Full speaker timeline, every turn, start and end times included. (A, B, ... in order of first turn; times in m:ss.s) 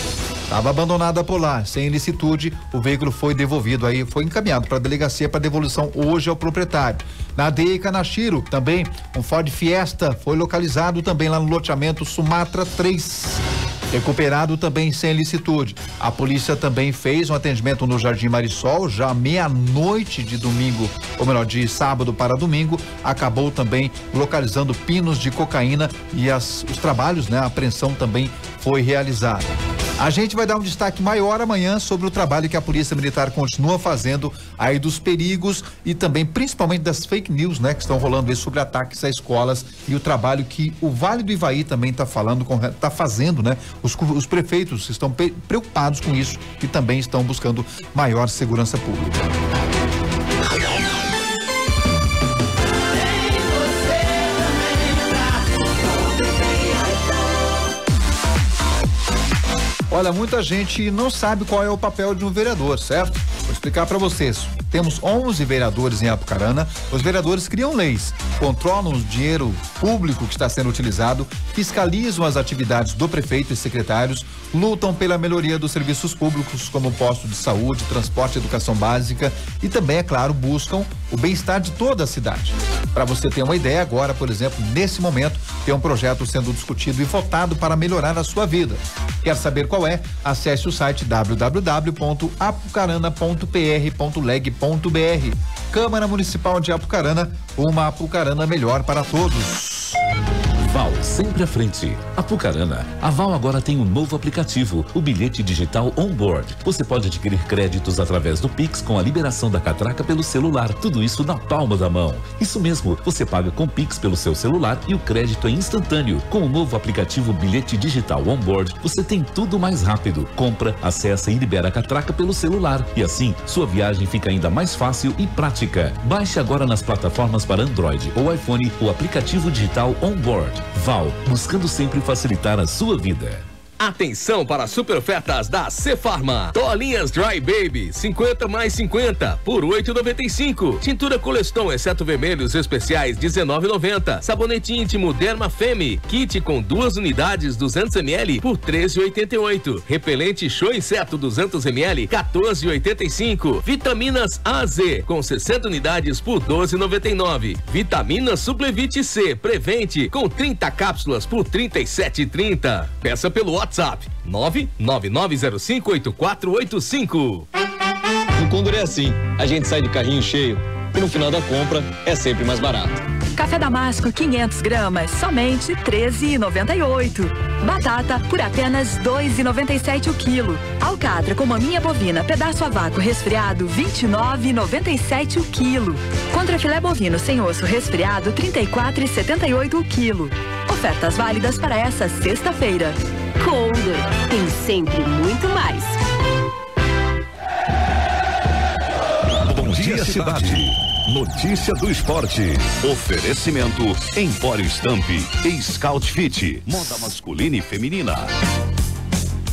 0:00.5-0:49.3 A
0:59.9-1:40.0 A
1:40.6-2:13.4 B
2:13.8-2:47.4 C
2:48.4-2:52.9 D
2:53.4-3:13.0 E
3:13.4-3:16.0 F
3:19.5-3:28.3 G
3:19.7-3:20.6 B